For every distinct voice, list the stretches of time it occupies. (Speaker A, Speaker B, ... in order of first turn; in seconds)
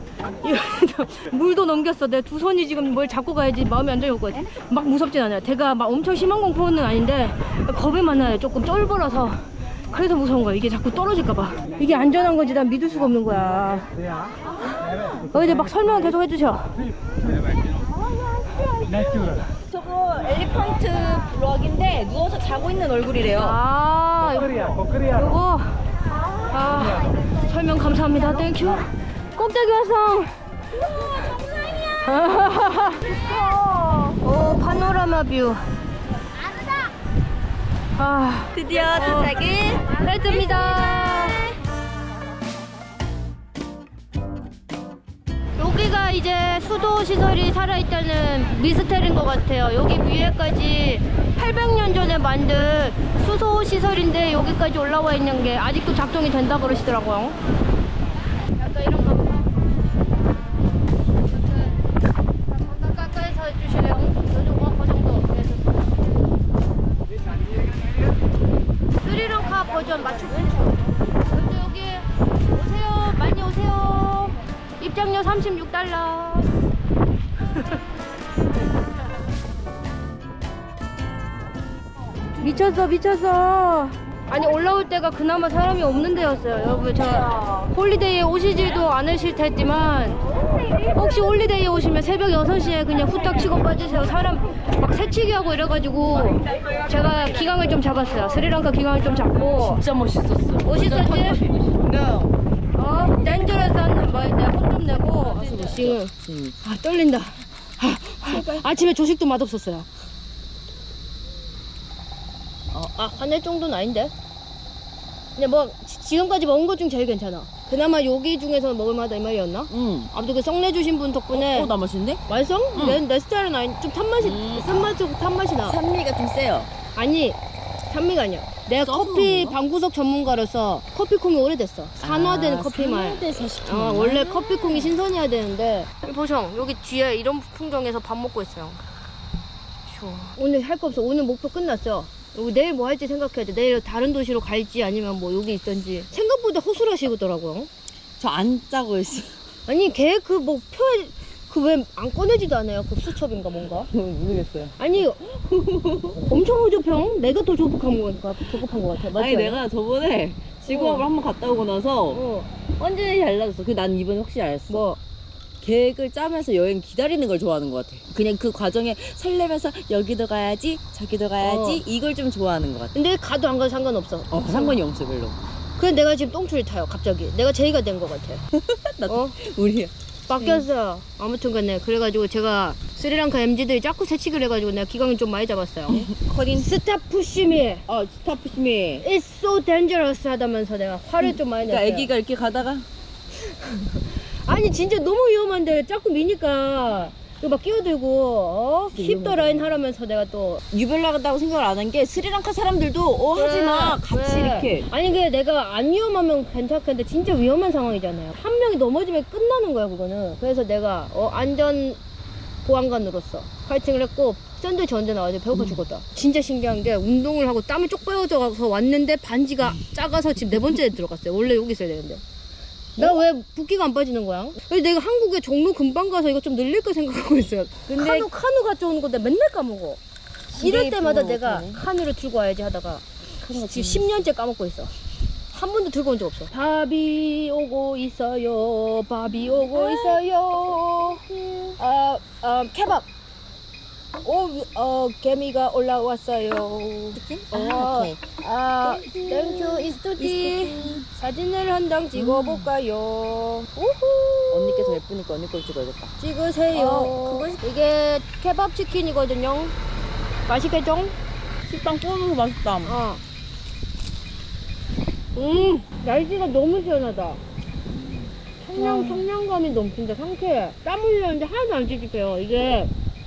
Speaker A: 0.4-9.4, 9.9-13.9, 15.3-16.8, 23.4-25.8, 26.5-30.3, 32.0-33.0, 34.2-35.6, 38.0-41.5, 45.6-57.4, 58.6-59.6, 61.3-61.8, 62.5-66.0, 69.0-76.5, 82.4-90.2, 90.9-99.8, 100.6-101.4, 102.8-106.1, 106.6-109.9, 112.8-114.1, 115.4-121.7, 122.3-125.8, 127.0-127.4, 127.9-138.8, 140.1-147.7, 149.7-153.9, 154.8-155.4, 156.1-159.6, 160.7-161.1, 162.1-162.5, 164.7-165.0, 171.4-171.8, 172.9-174.8, 175.8-178.4, 179.1-179.4, 180.3-187.8, 189.0-192.1, 193.5-200.6, 203.3-212.0, 212.7-222.2, 223.0-230.0, 230.6-233.0, 233.6-234.9, 235.5-243.1, 244.2-255.0, 256.2-259.8, 260.5-261.1, 262.9-263.2, 265.4-267.4, 268.6-272.9
Speaker B: 17.9-23.6, 30.7-32.2, 33.0-34.2, 38.5-41.6, 99.5-102.3, 105.4-106.6, 108.2-108.7, 119.7-120.1, 121.3-122.2, 122.8-123.0, 124.2-125.0, 125.6-126.7, 128.8-129.6, 132.0-135.0, 148.2-149.4, 153.9-154.8, 155.5-156.3, 159.1-162.2, 162.8-164.9, 165.6-172.9, 174.3-175.4, 178.5-180.7, 185.9-186.7, 187.9-189.1, 191.2-192.9, 198.9-199.8, 200.7-204.9, 223.0-223.2, 227.9-228.3, 230.5-231.8, 233.4-234.2, 239.5-240.2, 241.3-241.7, 247.2-248.2, 248.8-251.0, 252.1-252.7, 254.5-256.1, 256.7-257.5, 261.6-263.0, 268.8-269.3